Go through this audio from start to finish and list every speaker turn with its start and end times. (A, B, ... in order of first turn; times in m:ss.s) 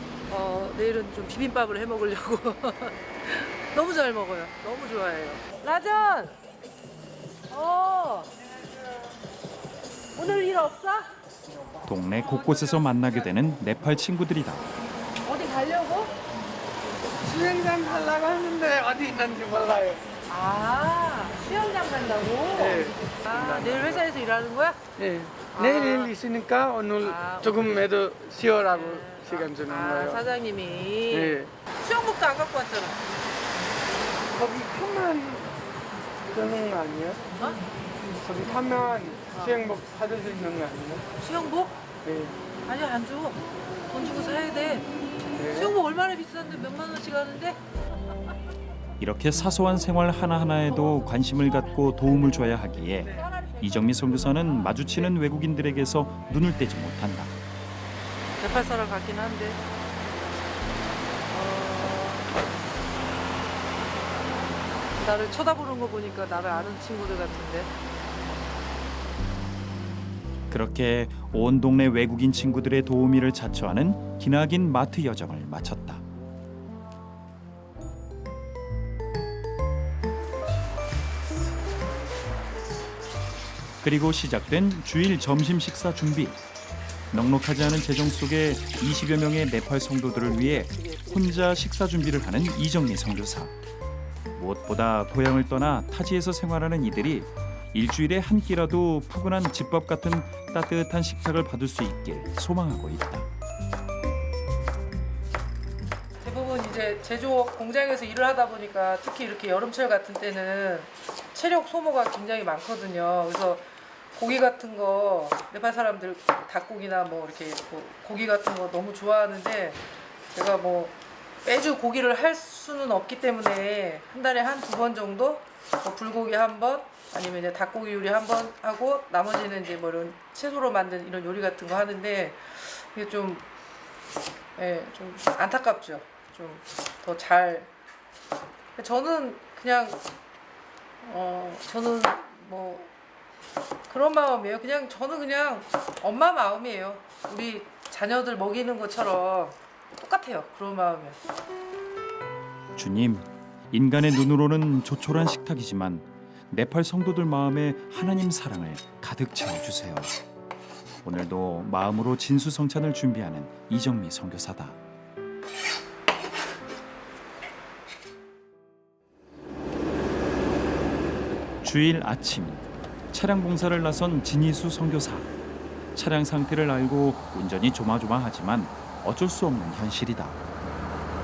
0:00.3-0:06.4 A
0:07.5-0:08.3 A
0:10.2-0:11.1 A
0:11.9-0:14.7 B
0:15.2-0:16.1 A
0:17.2-0:20.0 C
0:20.3-0:24.8 A
0:22.5-0:24.0 C
0:25.0-0:30.3 C
0:25.5-0:26.1 A
0:27.0-0:27.8 A
0:28.7-0:33.0 A
0:31.1-0:31.5 C
0:34.3-0:35.5 C
0:36.3-0:37.2 C
0:37.4-0:37.6 A
0:38.2-0:41.0 C
0:39.3-0:39.6 A
0:41.2-0:41.8 A
0:42.0-0:42.4 C
0:42.7-0:44.9 A
0:45.4-0:45.7 C
0:45.5-0:47.6 A
0:49.0-0:57.4 B
0:58.4-0:59.6 A
1:01.3-1:02.3 A
1:05.0-1:07.7 A
1:10.5-1:16.0 B
1:23.8-1:26.4 B
1:27.1-1:33.5 B
1:34.4-1:43.3 B
1:46.2-1:59.8 A
2:00.3-2:13.4 A
2:14.6-2:17.7 A
2:18.8-2:20.0 A
2:21.0-2:22.9 A
2:23.9-2:31.2 A
2:32.8-2:40.1 B
2:41.0-2:44.8 B
2:51.6-2:55.3 B
2:56.0-3:00.4 B